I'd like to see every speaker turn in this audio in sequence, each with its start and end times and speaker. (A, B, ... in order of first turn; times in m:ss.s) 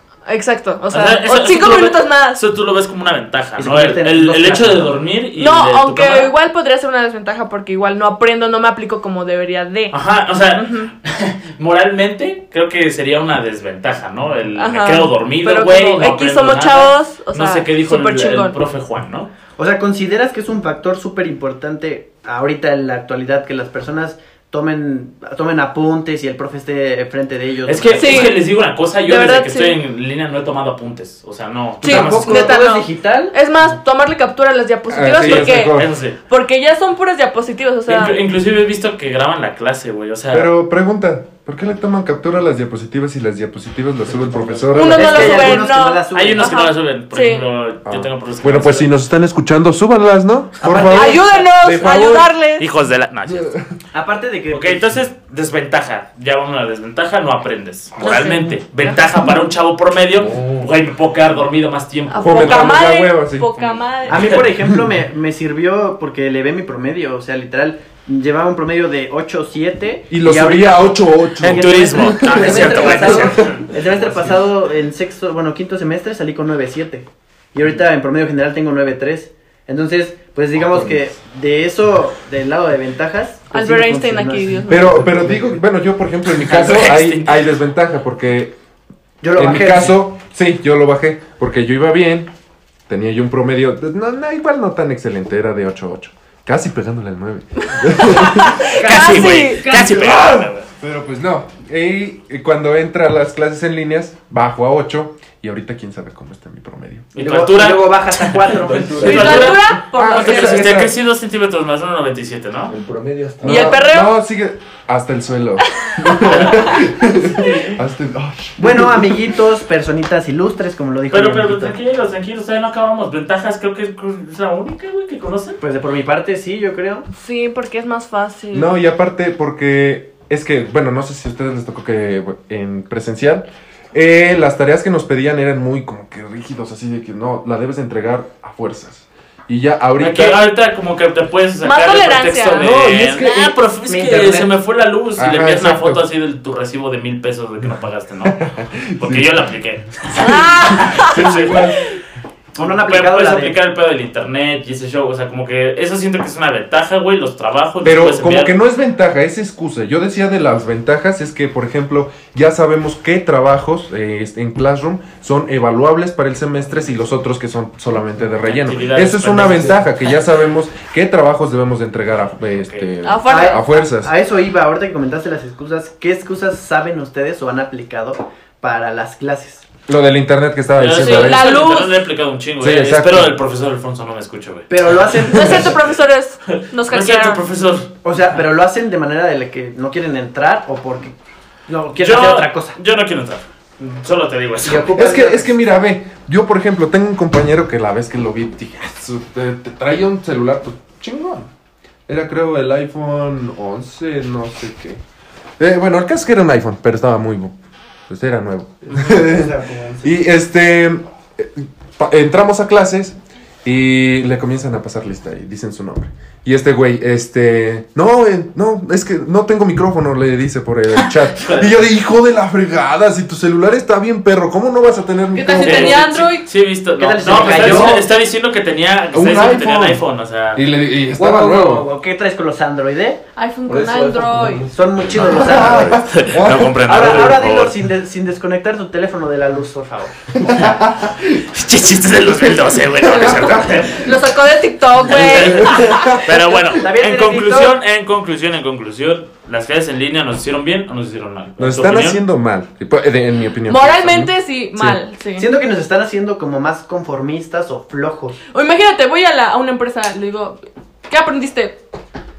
0:00.3-0:02.4 A
0:00.9-0:06.3 B
0:03.6-0:05.0 C
0:05.4-0:10.0 A
0:09.9-0:19.3 B
0:10.6-0:10.9 A
0:14.6-0:18.6 A
0:19.6-0:28.3 C
0:27.7-0:32.6 B
0:28.0-0:28.4 A
0:29.1-0:29.8 A
0:31.8-0:33.4 C
0:31.8-0:38.2 A
0:34.9-0:35.9 D
0:35.2-0:36.2 B
0:37.9-0:40.5 B
0:40.3-0:45.6 D
0:44.0-0:45.3 E
0:44.7-0:47.5 A
0:45.0-0:46.6 C
0:46.1-0:48.9 B
0:47.9-0:52.3 D
0:50.6-0:51.5 C
0:50.8-0:52.6 A
0:52.6-0:53.6 B
0:53.3-0:53.8 D
0:53.9-0:54.9 C
0:54.5-1:02.8 B
0:58.0-0:58.9 A
1:02.1-1:04.4 A
1:02.2-1:03.6 D
1:04.1-1:24.7 C
1:10.1-1:13.5 D
1:11.4-1:14.5 B
1:23.5-1:25.0 A
1:24.7-1:28.6 D
1:24.8-1:25.6 E
1:26.3-1:27.4 B
1:29.2-1:30.0 C
1:29.4-1:32.3 D
1:32.9-1:38.7 D
1:37.8-1:39.8 A
1:38.7-1:40.4 C
1:38.7-1:40.7 B
1:39.9-1:47.1 D
1:47.2-1:52.7 B
1:47.2-1:48.9 C
1:48.6-1:49.6 E
1:49.0-1:50.8 A
1:49.7-1:51.0 D
1:52.7-1:53.8 E
1:53.4-1:59.4 D
1:53.4-1:54.2 A
1:55.8-1:57.8 A
1:56.2-1:56.7 B
1:58.6-2:01.8 C
2:01.1-2:05.6 B
2:05.6-2:07.1 C
2:07.1-2:08.7 A
2:08.5-2:20.4 D
2:20.0-2:28.4 B
2:21.6-2:22.8 A
2:22.6-2:24.5 C
2:22.8-2:23.5 D
2:25.2-2:26.0 D
2:28.2-2:29.4 D
2:29.0-2:31.8 B
2:30.2-2:31.6 A
2:30.3-2:31.9 D
2:32.6-2:33.6 C
2:32.8-2:38.6 B
2:37.8-2:54.1 D
2:48.4-2:49.8 B
2:49.5-2:49.8 E
2:53.0-2:53.6 A
2:53.3-2:59.7 C
2:59.9-3:01.6 D
3:00.8-3:05.3 B
3:01.0-3:01.9 A
3:02.6-3:03.4 D
3:04.7-3:05.8 C
3:05.3-3:07.4 A
3:06.5-3:07.9 B
3:08.0-3:11.2 C
3:11.7-3:12.8 C
3:12.0-3:15.0 B
3:14.6-3:15.6 C
3:15.0-3:21.5 D
3:22.1-3:25.0 D
3:25.6-3:27.6 D
3:28.1-3:46.4 D
3:28.9-3:30.1 C
3:41.0-3:41.9 B
3:45.3-3:46.5 A
3:45.6-3:50.6 B
3:47.0-3:48.1 C
3:47.3-3:48.0 D
3:49.1-3:51.9 D
3:51.2-3:53.2 C
3:53.4-3:54.7 A
3:53.7-3:54.8 E
3:54.7-3:56.1 C
3:55.2-3:57.3 D
3:55.4-3:57.7 B
3:56.8-4:00.2 C
4:00.4-4:01.5 D
4:00.5-4:00.8 B
4:01.5-4:04.1 B
4:02.5-4:03.9 D
4:03.9-4:06.1 A
4:05.1-4:06.6 D
4:05.1-4:12.2 B
4:06.7-4:07.8 C
4:11.6-4:15.0 D
4:13.7-4:15.5 A
4:15.4-4:18.4 C
4:18.5-4:21.8 A